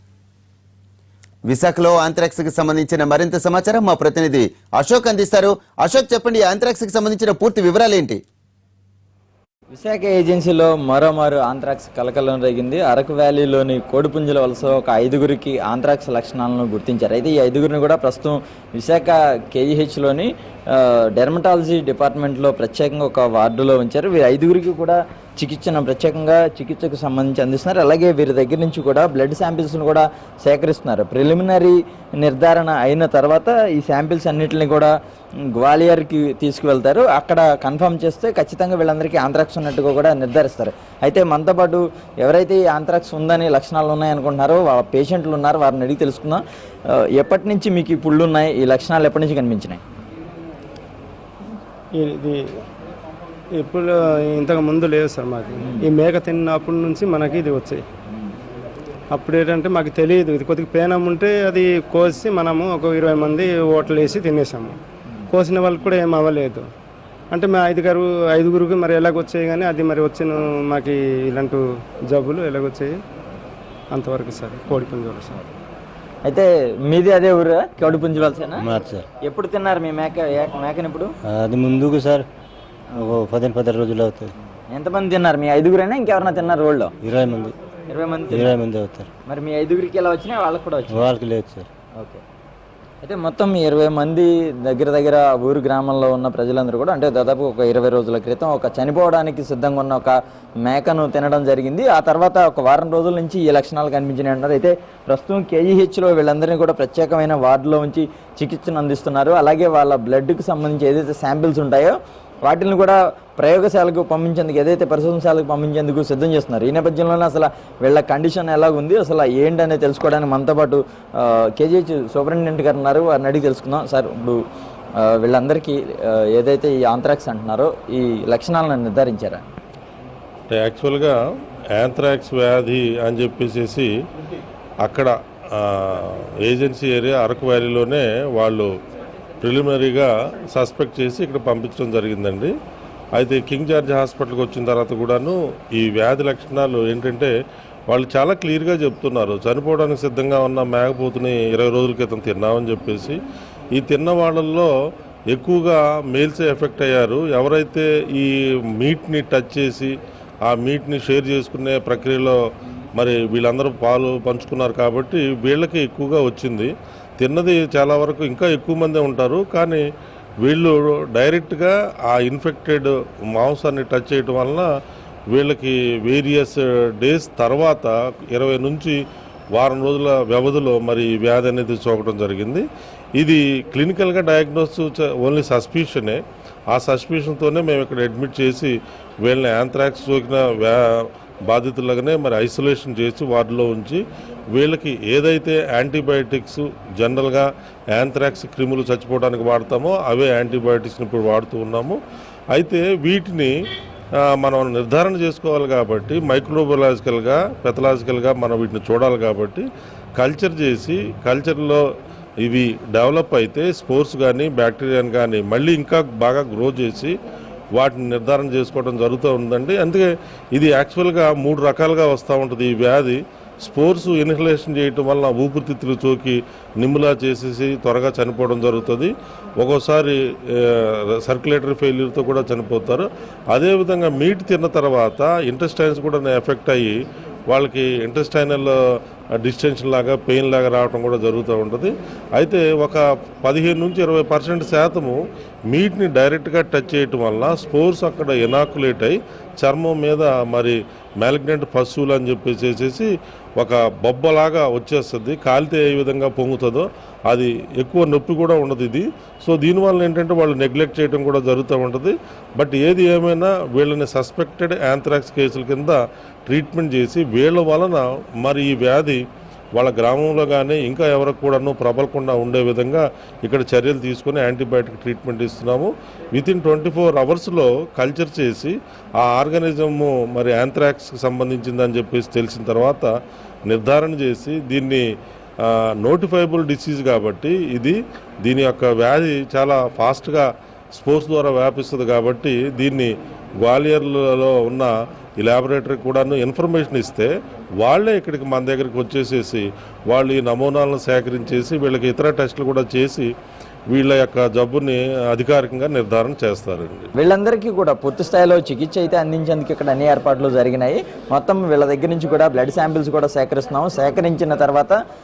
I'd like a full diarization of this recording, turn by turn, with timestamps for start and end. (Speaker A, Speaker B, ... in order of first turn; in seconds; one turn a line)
Speaker A: 1.5-8.2
Speaker B: 9.7-34.9
Speaker B: 35.5-49.8
Speaker C: 51.9-52.4
Speaker C: 53.5-57.8
Speaker C: 59.1-64.8
Speaker C: 65.3-66.7
Speaker C: 67.3-72.9
Speaker C: 73.9-75.5
Speaker B: 76.2-78.6
Speaker D: 78.6-79.0
Speaker B: 79.2-81.1
Speaker D: 81.3-82.2
Speaker D: 82.9-84.3
Speaker B: 84.7-86.9
Speaker D: 87.0-87.5
Speaker B: 87.9-88.5
Speaker D: 88.3-89.1
Speaker B: 89.3-91.1
Speaker D: 90.9-91.7
Speaker B: 92.0-92.2
Speaker B: 93.0-124.4
Speaker B: 125.0-129.4
Speaker E: 130.5-131.1
Speaker E: 131.8-133.9
Speaker E: 134.8-138.7
Speaker E: 139.4-142.5
Speaker E: 143.2-147.3
Speaker E: 147.9-153.2
Speaker E: 153.8-154.7
Speaker E: 155.3-159.9
Speaker E: 160.4-162.4
Speaker E: 163.0-169.8
Speaker E: 170.4-174.7
Speaker E: 175.3-179.0
Speaker E: 179.6-182.6
Speaker E: 183.2-186.2
Speaker E: 186.7-194.0
Speaker E: 194.5-202.0
Speaker E: 202.5-203.5
Speaker E: 204.4-209.6
Speaker E: 210.2-211.8
Speaker E: 212.4-217.1
Speaker E: 217.8-236.9
Speaker E: 237.5-238.7
Speaker E: 239.4-269.2
Speaker E: 269.8-283.1
Speaker E: 283.7-285.0
Speaker E: 285.6-303.3
Speaker E: 303.9-307.1
Speaker B: 307.2-315.0